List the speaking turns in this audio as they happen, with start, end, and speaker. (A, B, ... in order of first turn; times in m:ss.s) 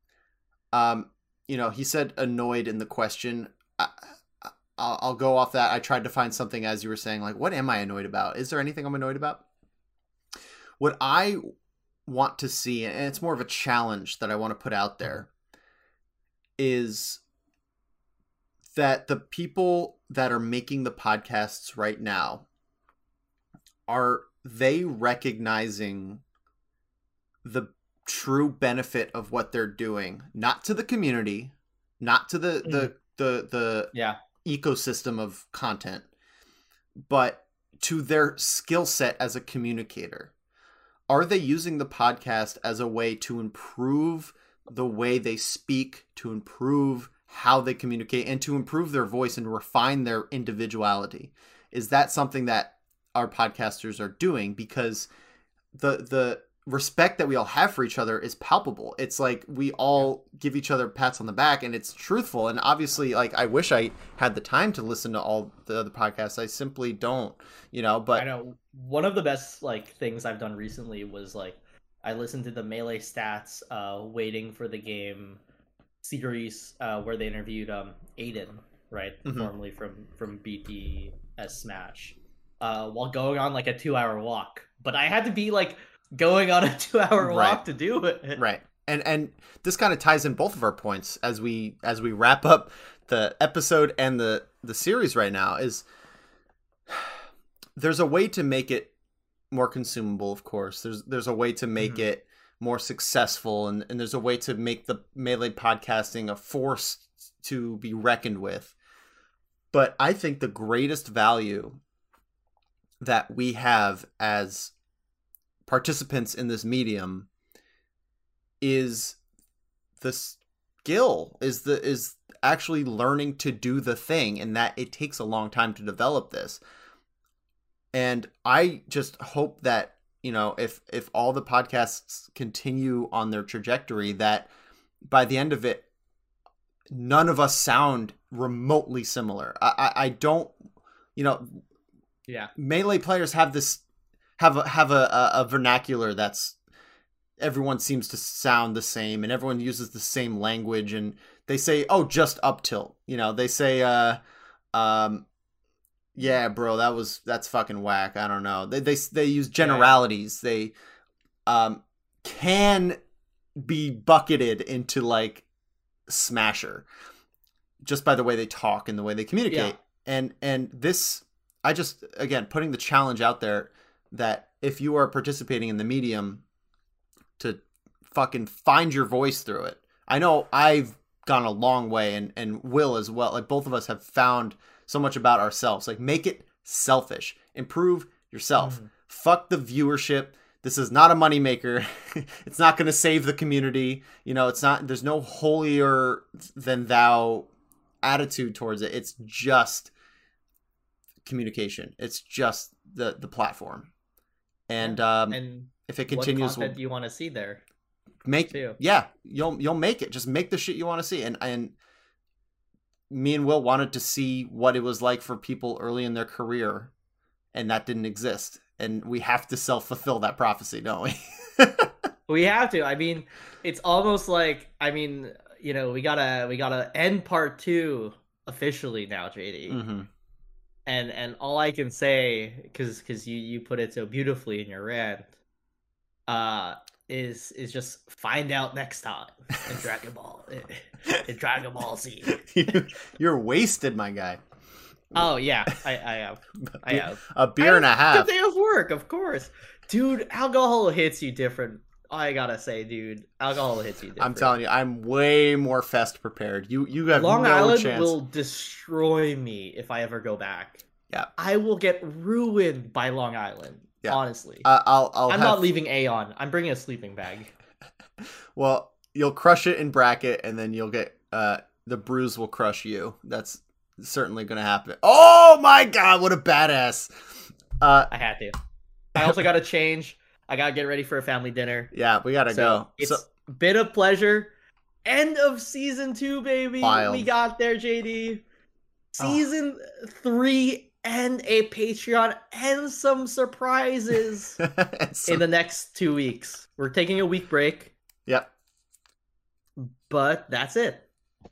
0:00.7-0:09.4 A
0:10.8-0:11.4 A
0:12.0-0:15.3 A
0:16.6-0:17.2 A
0:18.7-0:22.4 A
0:23.9-0:26.2 A
0:27.4-0:33.9 A
0:32.6-0:32.9 B
0:34.4-0:36.1 A
0:37.0-0:40.3 A
0:41.1-0:55.1 A
0:55.7-1:08.3 A
1:08.2-1:15.4 B
1:16.0-1:28.4 B
1:19.2-1:19.5 A
1:27.2-1:27.6 A
1:28.4-1:35.8 A
1:36.9-1:37.2 A
1:37.8-1:38.9 A
1:39.5-1:48.7 A
1:41.8-1:42.1 B
1:49.7-1:51.8 A
1:53.0-1:54.7 A
1:55.6-1:57.3 A
1:58.6-1:59.2 A
2:00.0-2:06.6 A
2:07.9-2:14.5 A
2:15.0-2:15.9 A
2:16.9-2:20.6 A
2:21.2-2:21.6 A
2:22.5-2:23.8 A
2:24.4-2:26.6 A
2:27.4-2:34.2 A
2:34.7-2:35.2 A
2:36.1-2:40.7 A
2:39.6-2:40.0 B
2:41.4-2:43.0 A
2:43.6-2:45.4 A
2:46.1-2:46.8 A
2:47.8-2:56.4 A
2:49.5-2:49.7 B
2:57.4-3:17.5 A
3:08.6-3:08.9 B
3:18.0-3:19.9 A
3:21.2-3:23.9 A
3:24.7-3:26.8 A
3:24.8-3:27.6 B
3:28.2-3:31.7 A
3:28.5-3:28.8 B
3:33.1-3:36.9 A
3:37.5-3:41.9 A
3:42.3-3:49.8 B
3:49.7-3:50.1 A
3:50.8-3:55.3 B
3:56.3-4:02.8 B
4:02.3-4:04.4 A
4:05.1-4:14.5 B
4:06.6-4:08.3 A
4:14.2-4:18.1 A
4:17.1-4:20.8 B
4:21.4-4:24.7 B
4:24.0-4:25.7 A
4:25.3-4:27.5 B
4:28.5-4:38.1 A
4:38.1-4:38.6 B
4:39.1-4:41.9 B
4:41.9-4:43.2 A
4:42.5-4:44.5 B
4:45.0-4:48.4 B
4:46.8-4:47.3 A
4:49.1-4:54.6 B
4:49.2-4:49.4 A
4:54.6-4:55.4 A
4:55.3-4:57.9 B
4:59.8-5:01.1 B